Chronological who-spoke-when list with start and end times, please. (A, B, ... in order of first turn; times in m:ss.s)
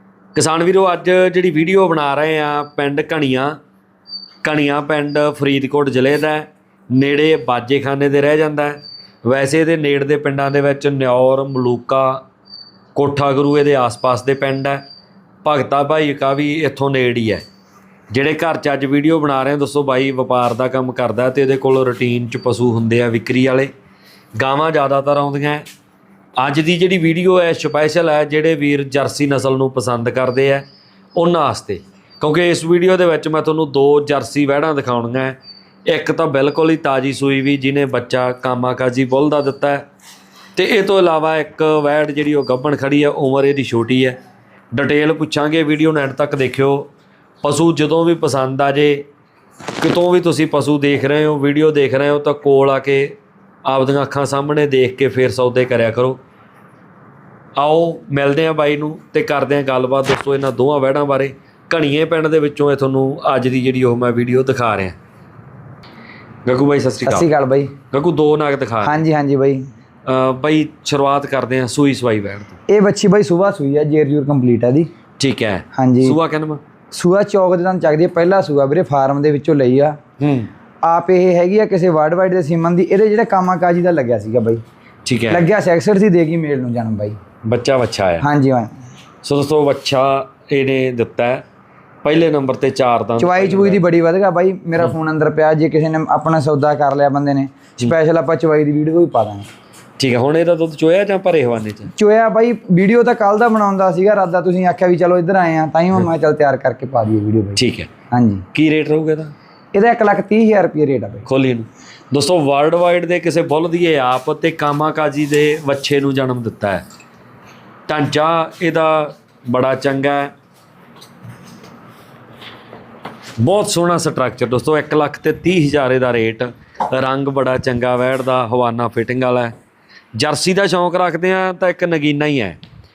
0:00.4-0:03.6 A
0:04.4-0:12.2 A
0:13.0-0:14.8 A
0:15.4-0:17.4 A
0:18.1-0:23.7 A
0:24.4-0:25.6 A
0:26.4-0:39.8 A
0:40.6-0:44.2 A
0:44.7-0:46.9 A
0:47.4-0:49.1 A
0:49.8-0:56.2 A
0:57.6-1:05.0 A
1:06.4-1:07.3 A
1:07.1-1:07.8 B
1:07.9-1:09.0 A
1:08.8-1:09.6 B
1:10.1-1:12.6 A
1:12.7-1:14.9 B
1:15.2-1:16.6 A
1:15.8-1:16.2 B
1:16.9-1:20.0 B
1:20.2-1:20.5 A
1:20.8-1:24.6 B
1:25.0-1:25.5 A
1:25.3-1:27.2 B
1:27.4-1:28.2 A
1:28.2-1:28.8 B
1:29.2-1:31.4 A
1:32.0-1:33.8 A
1:33.2-1:39.5 B
1:40.0-1:41.9 A
1:42.0-1:47.6 B
1:47.6-1:47.9 A
1:48.1-1:48.4 B
1:48.5-1:49.3 A
1:49.7-1:51.3 B
1:51.3-1:56.8 A
1:57.9-2:00.3 A
2:03.4-2:09.5 A
2:10.2-2:12.6 A